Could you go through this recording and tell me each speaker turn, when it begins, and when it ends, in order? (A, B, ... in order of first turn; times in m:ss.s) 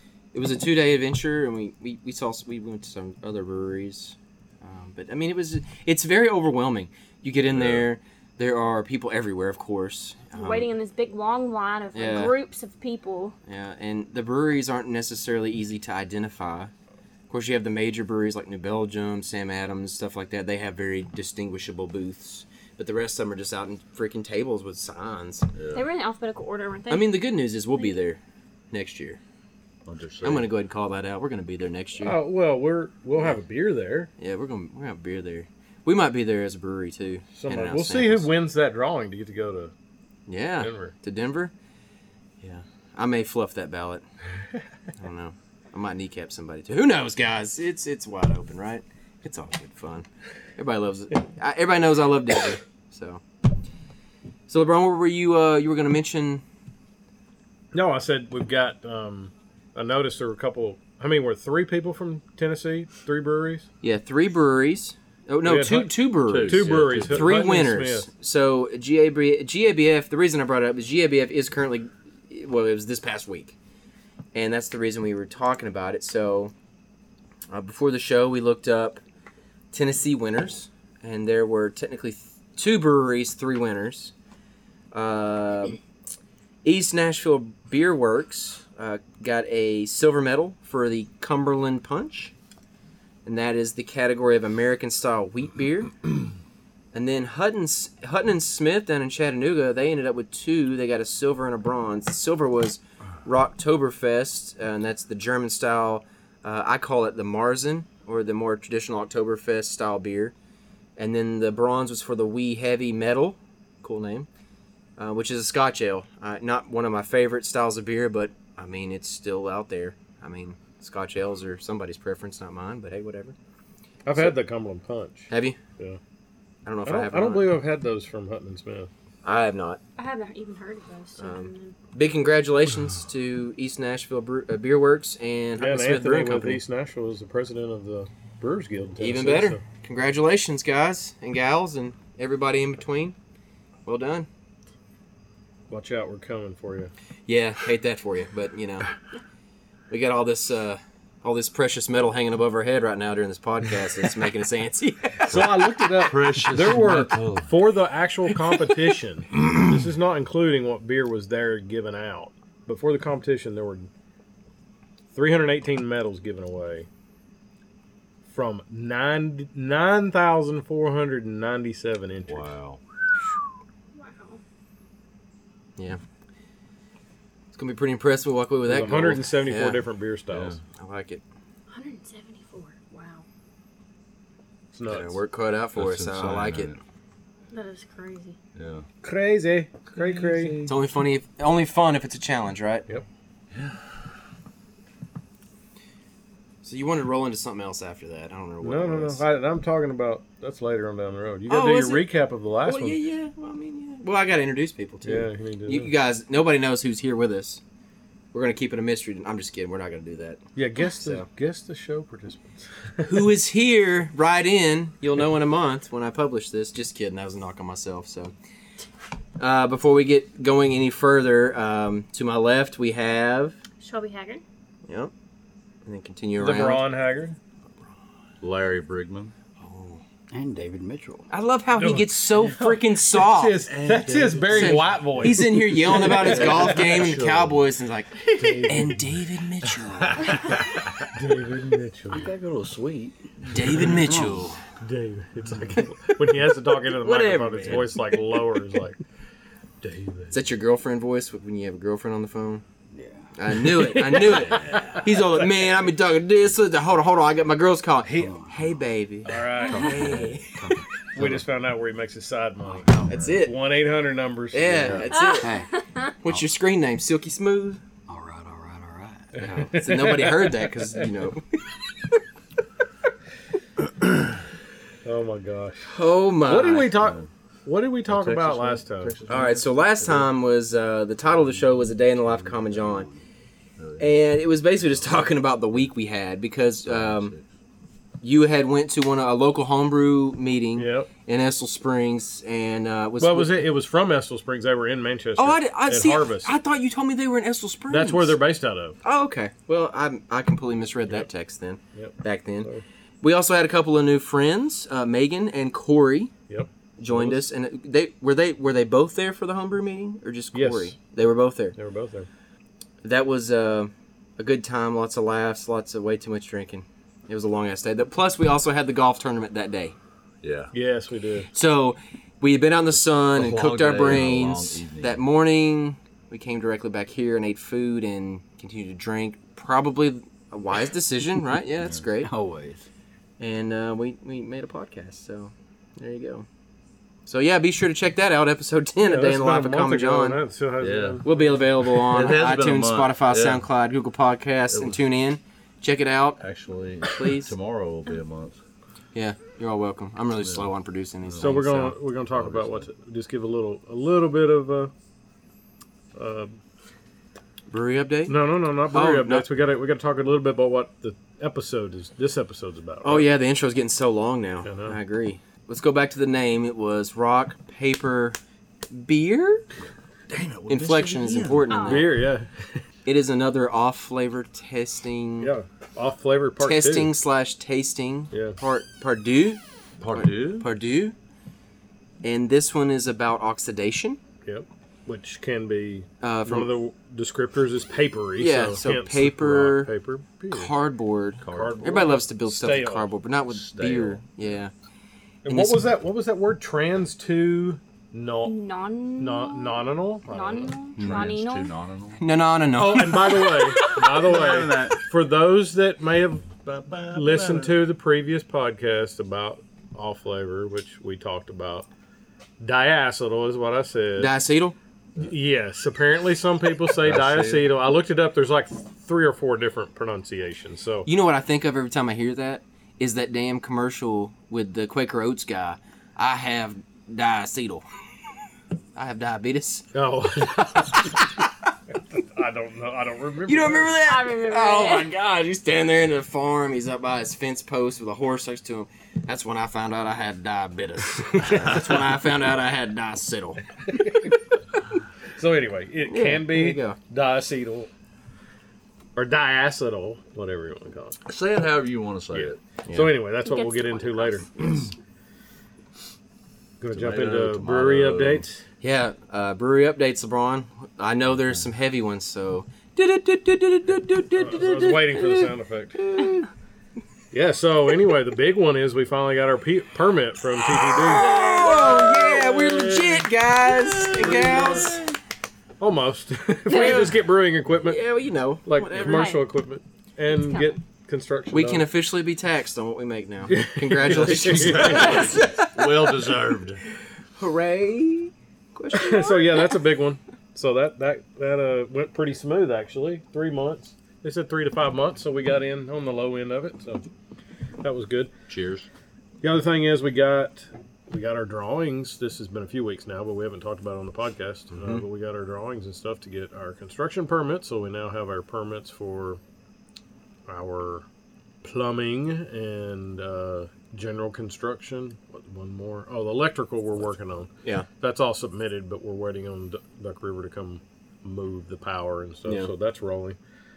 0:00.3-0:10.7 A
0:07.5-0:07.9 B
0:10.3-0:13.4 C
0:11.9-0:12.4 A
0:13.5-0:16.7 A
0:17.3-0:25.5 A
0:25.5-0:25.9 B
0:25.7-0:27.2 C
0:26.9-0:28.2 A
0:28.7-0:29.2 A
0:29.9-0:30.5 B
0:30.2-0:32.2 A
0:32.0-0:34.1 D
0:34.2-0:38.3 A
0:37.4-0:39.7 D
0:40.3-0:41.5 A
0:40.6-0:40.9 D
0:42.4-0:44.0 A
0:45.0-0:53.2 A
0:54.5-0:56.4 A
0:57.7-1:03.7 D
1:03.8-1:13.6 A
1:05.4-1:08.1 D
1:06.3-1:07.4 B
1:14.4-1:16.5 A
1:17.5-1:19.0 A
1:19.7-1:24.1 A
1:24.9-1:25.8 A
1:26.6-1:32.3 A
1:33.2-1:35.9 A
1:36.9-1:50.3 A
1:51.0-1:54.3 A
1:55.0-2:03.4 A
2:04.0-2:06.0 D
2:05.3-2:05.6 A
2:06.7-2:07.6 A
2:06.8-2:08.9 D
2:09.2-2:09.8 A
2:10.0-2:11.8 C
2:11.2-2:16.6 A
2:15.6-2:19.6 D
2:19.0-2:23.2 A
2:23.9-2:24.3 A
2:25.7-2:26.9 D
2:27.3-2:28.9 A
2:29.9-2:35.6 A
2:35.2-2:37.7 B
2:35.3-2:43.9 D
2:45.1-2:46.9 D
2:48.3-2:52.5 D
2:52.2-2:52.8 B
2:53.9-2:54.4 C
2:57.5-2:59.8 A
2:58.7-3:00.6 D
3:00.3-3:00.6 B
3:00.8-3:01.2 A
3:01.7-3:03.2 C
3:04.7-3:05.2 D
3:04.9-3:06.8 A
3:05.8-3:06.8 B
3:07.5-3:08.4 C
3:08.6-3:08.9 B
3:09.0-3:10.6 D
3:10.0-3:10.8 B
3:10.7-3:12.9 A
3:13.5-3:13.8 B
3:16.6-3:19.2 A
3:18.6-3:23.0 D
3:21.5-3:27.6 A
3:25.0-3:25.9 D
3:28.3-3:31.3 A
3:30.6-3:33.1 D
3:33.0-3:38.3 A
3:39.4-3:43.6 A
3:43.8-3:44.4 C
3:44.9-3:45.1 A
3:45.9-3:46.9 A
3:46.4-3:47.4 D
3:48.4-3:49.3 B
3:49.6-3:50.0 A
3:50.3-3:51.3 E
3:51.3-3:53.6 A
3:51.8-3:57.6 D
3:53.7-3:55.5 B
3:54.5-4:00.6 A
3:58.4-3:59.2 D
4:01.1-4:02.3 D
4:02.1-4:04.5 E
4:03.5-4:04.6 A
4:04.8-4:09.0 D
4:07.0-4:08.2 A
4:09.8-4:10.3 D
4:10.3-4:12.6 A
4:12.9-4:13.3 E
4:13.3-4:20.6 A
4:13.6-4:15.3 D
4:14.4-4:14.9 E
4:18.1-4:18.8 E
4:19.3-4:20.2 D
4:19.6-4:21.5 E
4:21.2-4:25.1 D
4:22.6-4:23.4 E
4:23.0-4:23.6 A
4:24.5-4:25.5 A
4:24.8-4:25.1 B
4:25.2-4:26.0 C
4:25.4-4:25.7 E
4:26.2-4:27.8 A
4:28.1-4:29.3 E
4:29.4-4:31.6 A
4:29.4-4:30.9 D
4:35.0-4:39.2 D
4:35.9-4:37.0 A
4:37.0-4:37.3 B
4:38.1-4:40.3 B
4:39.3-4:43.1 A
4:42.4-4:43.1 B
4:43.8-4:44.2 B
4:44.0-4:47.3 A
4:46.8-4:47.5 B
4:48.2-4:53.6 A
4:50.8-4:51.1 D
4:53.2-4:56.5 D
4:55.4-4:58.4 A
4:57.9-4:59.0 D
4:59.0-5:02.7 A
5:02.0-5:02.8 D
5:03.2-5:06.3 A
5:06.5-5:07.4 D
5:07.0-5:11.8 A
5:10.5-5:11.0 D
5:11.8-5:12.3 D
5:13.0-5:20.0 A
5:20.4-5:20.7 B
5:20.7-5:21.5 D
5:21.5-5:32.3 A
5:22.9-5:25.2 B
5:32.2-5:32.9 E
5:33.4-5:36.5 A
5:37.3-5:40.4 A
5:39.0-5:41.6 D
5:40.8-5:41.2 B
5:41.2-5:46.4 A
5:41.8-5:43.7 B
5:44.7-5:45.0 B
5:46.4-5:48.6 B
5:47.0-5:47.5 A
5:49.2-5:52.0 A
5:50.4-5:50.7 B
5:51.2-5:51.6 B
5:51.4-5:54.9 D
5:52.3-5:52.9 B
5:56.2-5:56.6 D
5:57.7-5:58.4 A
5:58.3-6:03.3 D
5:58.9-5:59.5 A
6:03.0-6:08.4 A
6:04.6-6:05.0 D
6:08.9-6:09.7 A
6:10.3-6:11.9 B
6:10.7-6:12.2 A
6:11.7-6:12.1 C
6:11.9-6:12.8 D
6:13.1-6:15.5 A
6:15.4-6:17.1 D
6:16.6-6:21.2 A
6:18.3-6:18.6 D
6:20.0-6:20.7 B
6:22.2-6:24.2 A
6:24.4-6:30.7 D
6:26.2-6:26.7 A
6:28.4-6:29.9 A
6:30.5-6:34.7 A
6:31.4-6:33.1 D
6:33.5-6:34.6 B
6:35.4-6:38.6 D
6:35.5-6:35.9 A
6:38.4-6:41.7 C
6:39.2-6:40.8 D
6:41.0-6:41.3 A
6:41.0-6:42.2 B
6:42.2-6:44.0 A
6:42.8-6:46.5 D
6:44.0-6:45.0 B
6:46.6-6:47.8 B
6:47.1-6:51.9 D
6:52.6-6:54.3 D
6:54.2-6:54.8 A
6:55.2-7:01.1 D
6:57.0-6:57.9 B
7:01.1-7:07.8 A
7:09.0-7:09.9 A
7:09.9-7:11.2 D
7:12.1-7:14.0 D
7:13.5-7:23.6 A
7:14.0-7:15.1 C
7:21.5-7:22.0 B
7:23.9-7:24.3 D
7:25.4-7:27.9 D
7:26.1-7:27.0 A
7:29.2-7:31.2 D
7:31.2-7:32.6 B
7:32.3-7:34.7 D
7:32.9-7:33.2 A
7:33.4-7:34.9 C
7:36.8-7:38.6 D
7:36.9-7:38.5 B
7:38.8-7:46.5 A
7:41.3-7:41.7 B
7:44.4-7:46.0 D
7:47.3-7:53.3 D
7:50.8-7:55.1 A
7:54.0-7:55.0 D
7:55.8-7:58.0 D
7:56.7-7:57.2 A
7:56.7-7:57.1 C
7:57.8-7:59.4 A
7:58.6-8:01.9 D
7:58.9-7:59.4 C
8:00.3-8:00.7 C
8:01.5-8:06.2 A
8:03.5-8:05.4 D
8:04.2-8:06.8 B
8:07.4-8:09.4 A
8:08.9-8:17.0 D
8:17.8-8:18.3 D
8:18.5-8:18.9 B
8:19.4-8:29.4 D
8:24.8-8:25.0 B
8:30.5-8:31.1 D
8:31.6-8:43.4 D
8:42.5-8:42.7 A